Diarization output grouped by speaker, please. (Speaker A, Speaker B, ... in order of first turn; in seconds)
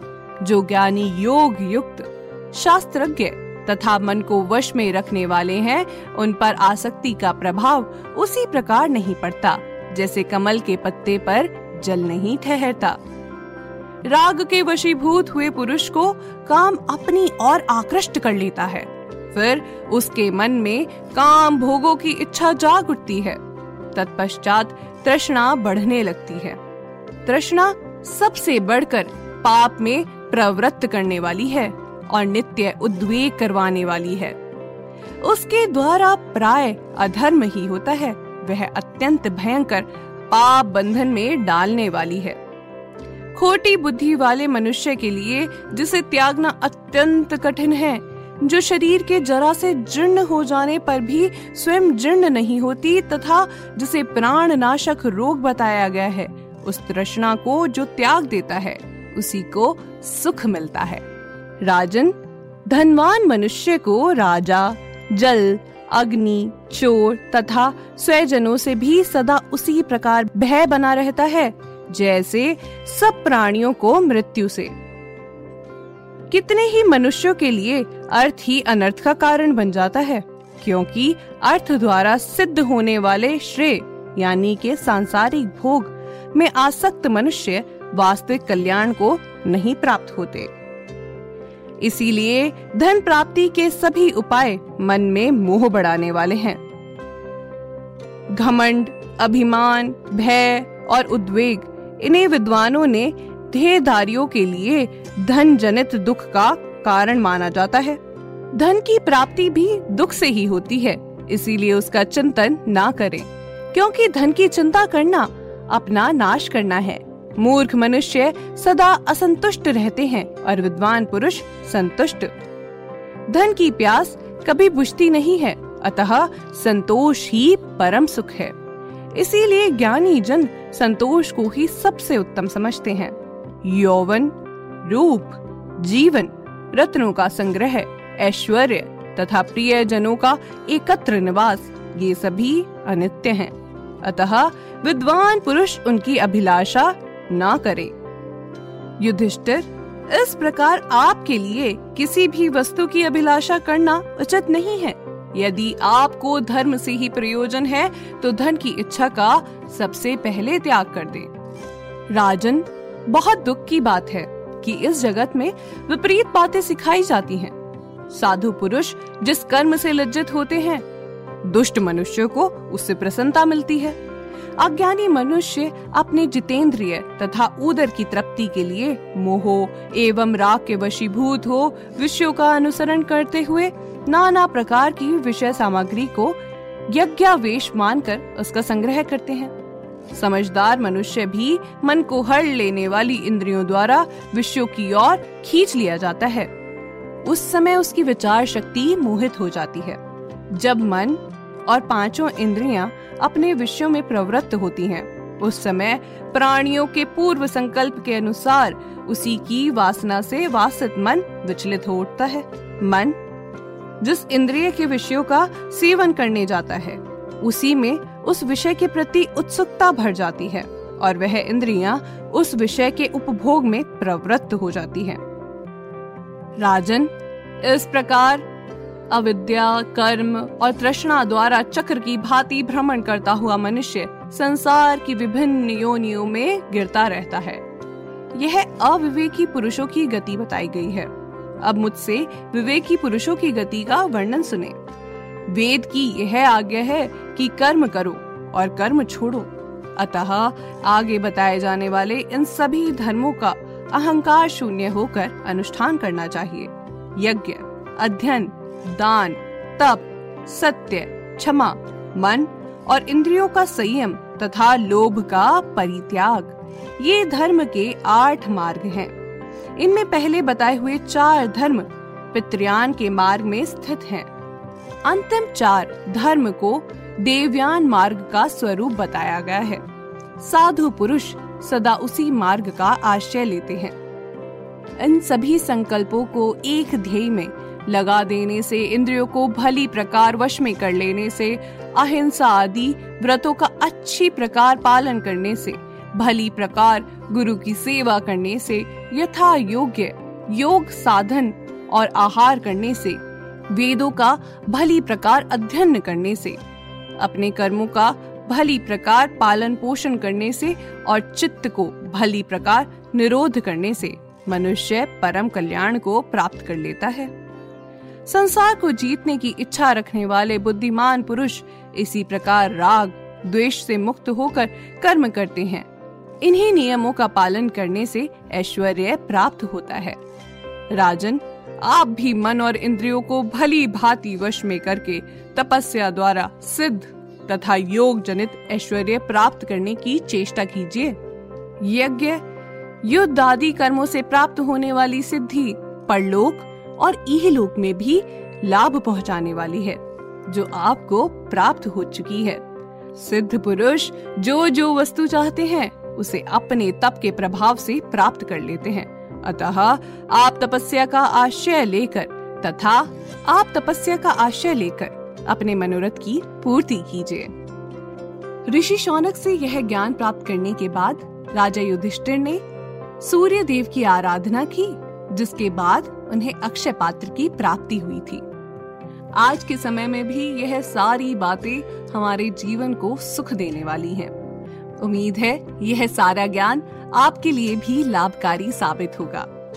Speaker A: 0.4-13.0, 14.1-23.4, 23.9-26.6, 27.2-34.4, 35.2-42.4, 43.4-61.0, 61.6-74.8, 76.3-90.5, 91.8-96.6, 98.3-108.0, 108.5-122.3, 123.3-128.6, 129.1-147.9, 149.0-161.3, 162.1-167.6, 168.1-170.9, 171.4-174.0, 174.6-189.5, 190.1-196.5, 197.2-200.0, 200.5-213.2, 214.0-225.2, 226.6-228.5, 229.1-237.6, 238.3-241.1, 241.6-244.8, 245.5-269.1, 269.8-274.3, 275.1-279.8, 280.4-283.9, 285.0-306.6, 307.2-317.3, 318.3-325.9, 326.4-330.2, 330.9-341.2, 341.8-342.4, 343.0-352.6, 353.2-367.5, 368.7-372.6, 373.2-378.4, 379.4-384.3, 385.0-389.5